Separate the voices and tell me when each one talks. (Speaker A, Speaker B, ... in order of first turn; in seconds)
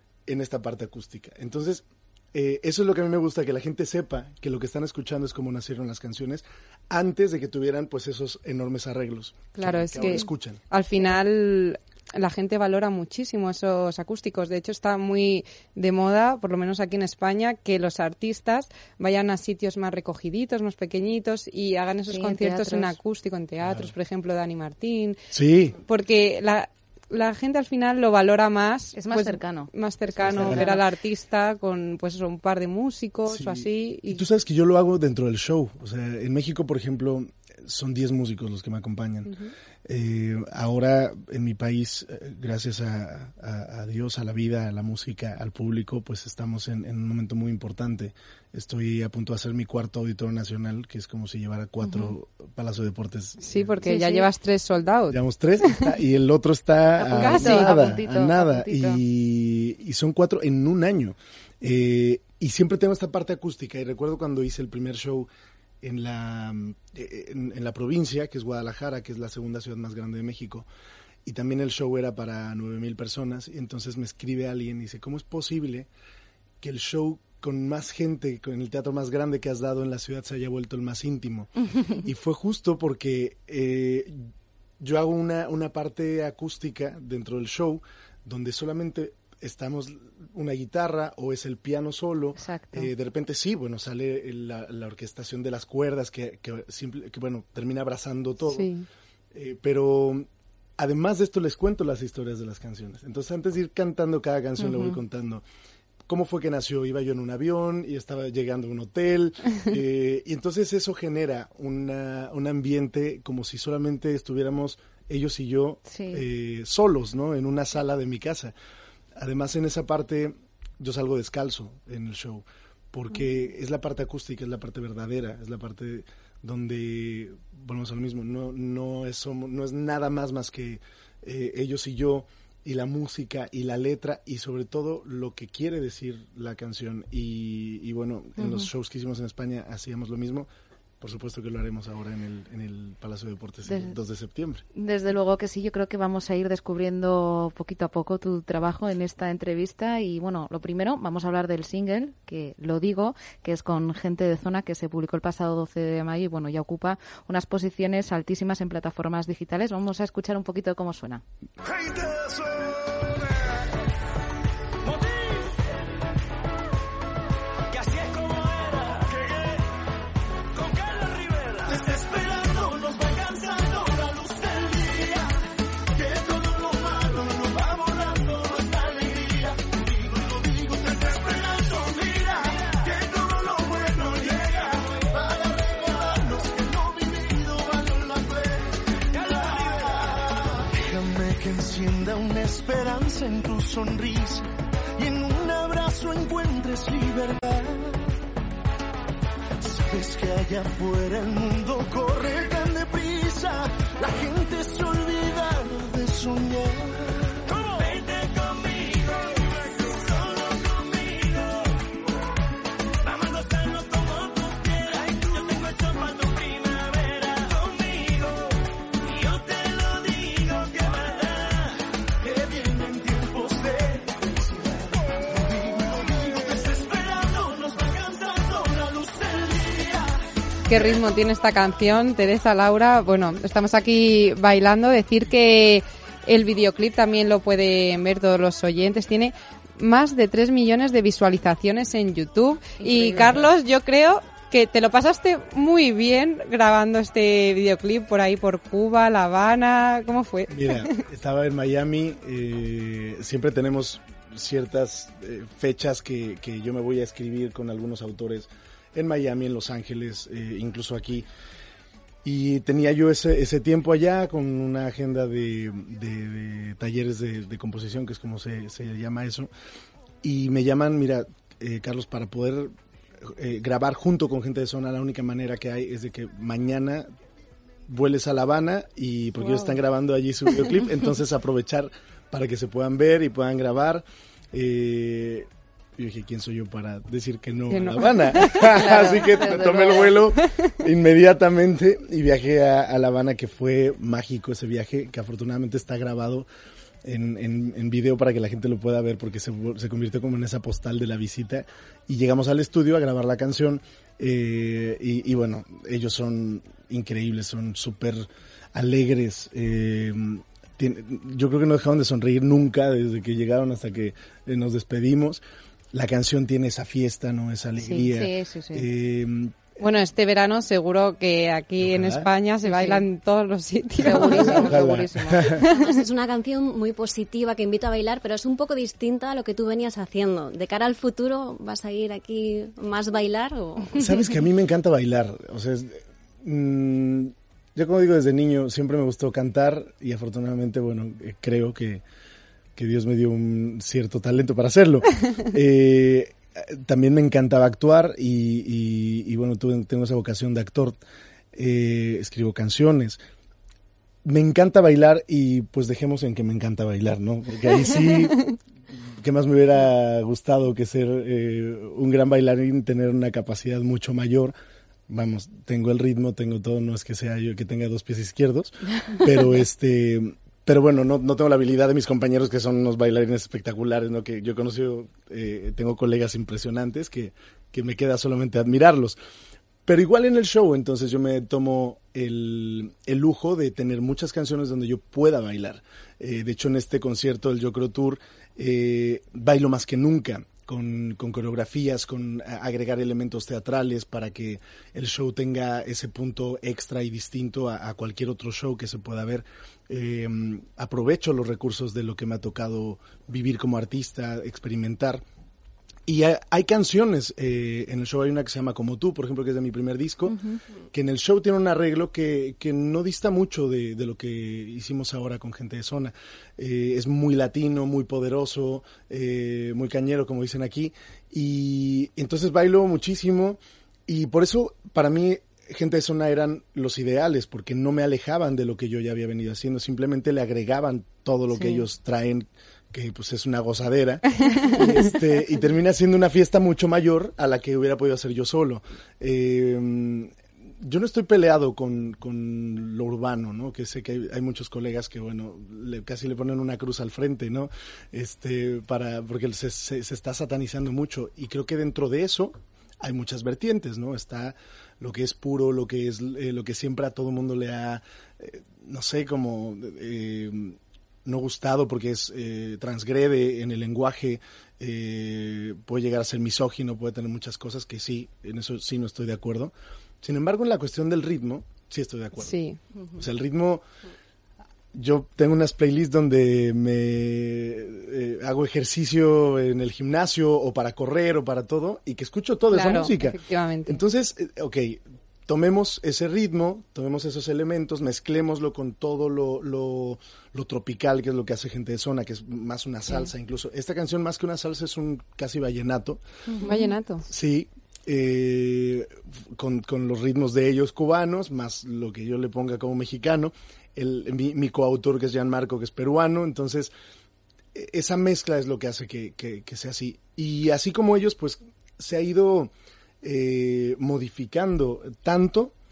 Speaker A: 0.3-10.6, 23.6-23.9, 25.3-25.8, 30.2-30.7, 33.3-39.3, 39.9-53.8, 55.1-65.3, 65.8-70.7, 71.2-75.9, 76.6-81.5, 82.0-84.3, 84.8-98.7, 99.3-100.3, 100.8-105.4, 106.1-118.5, 119.2-140.5, 141.0-144.6, 250.5-261.3, 262.2-269.5, 270.2-272.7, 273.2-277.1, 277.9-296.5, 297.0-315.4, 315.9-319.7, 321.8-322.3, 324.3-325.6, 334.0-342.0, 342.8-351.0, 351.5-353.2, 354.2-358.4, 359.2-364.5, 365.1-379.2, 379.9-405.2, 406.1-410.4, 410.9-472.6, 473.2-473.8, 474.9-496.2, 497.3-506.9, 507.7-512.7, 513.2-515.7
Speaker B: 9.6-25.2, 25.9-34.2, 39.3-39.5, 53.4-55.2, 57.1-57.8, 98.5-98.9, 230.7-250.9, 287.7-288.8, 319.8-324.8, 325.6-325.9, 434.4-435.1, 472.5-472.8, 482.7-484.0, 496.6-497.2
Speaker C: 22.1-23.0, 29.0-29.7, 30.2-30.8, 51.8-52.1, 53.8-54.3, 57.0-59.0, 81.7-82.0, 92.4-92.9, 104.6-105.0, 115.9-116.2, 138.4-138.7, 143.7-143.9, 144.8-161.2, 242.8-243.5, 288.8-290.1, 317.8-318.9, 322.6-323.0, 324.0-325.5, 410.3-410.6, 431.5-431.9, 496.5-496.9
Speaker D: 161.7-163.0, 171.6-175.3, 176.0-194.5, 195.0-198.1, 199.6-208.1, 208.8-209.1, 209.8-211.6, 213.1-216.6, 217.3-218.2, 219.1-221.6, 222.2-230.2
Speaker E: 325.7-334.0